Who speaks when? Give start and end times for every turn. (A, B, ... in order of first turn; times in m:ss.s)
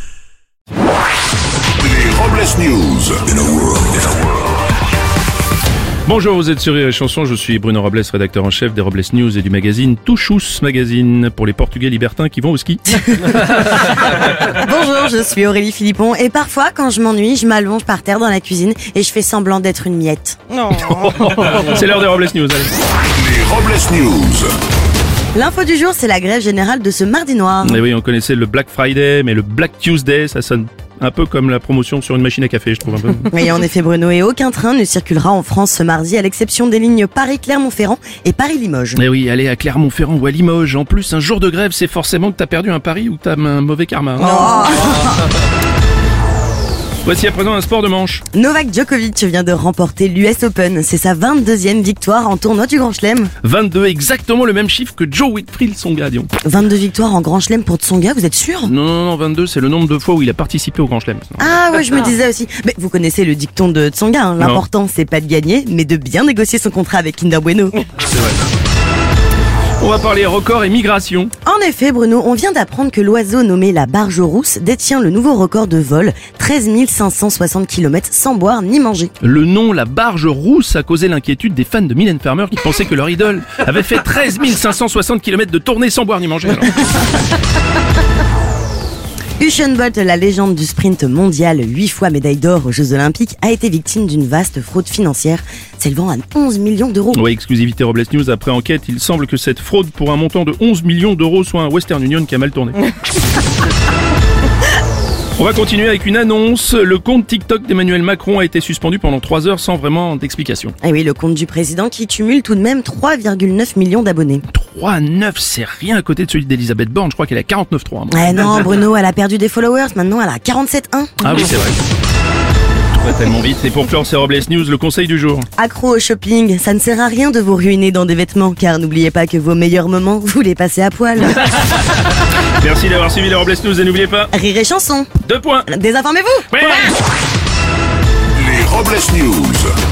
0:01.8-0:04.4 A
0:06.0-0:13.5 B
0:14.4-0:20.8 C
0:20.7-0:22.7 B
0:23.2-0:24.5 A
0:25.3-0:27.8 C
0:27.6-0:33.3 B
0:33.3-0:39.0 C
0:39.0-0:45.1 B
0:44.2-0:45.2 C
0:47.0-0:48.2 B
0:48.3-0:53.3 C
0:53.4-0:56.3 B
0:56.4-0:58.7 C
0:58.6-1:01.5 B
1:01.4-1:07.8 C
1:08.0-1:08.4 B
1:09.8-1:11.3 B
1:11.4-1:19.1 C
1:19.2-1:27.1 B
1:29.4-1:37.2 C
1:37.1-1:42.8 B
1:45.4-1:50.7 B
1:50.8-1:54.4 C
1:54.5-1:58.5 B
1:58.1-2:01.2 C
2:01.2-2:01.8 B
2:02.9-2:05.5 B
2:05.6-2:11.5 C
2:12.6-2:14.3 B
2:14.3-2:15.1 C
2:15.2-2:15.7 B
2:15.7-2:16.8 C
2:16.5-2:16.9 B
2:18.4-2:19.7 A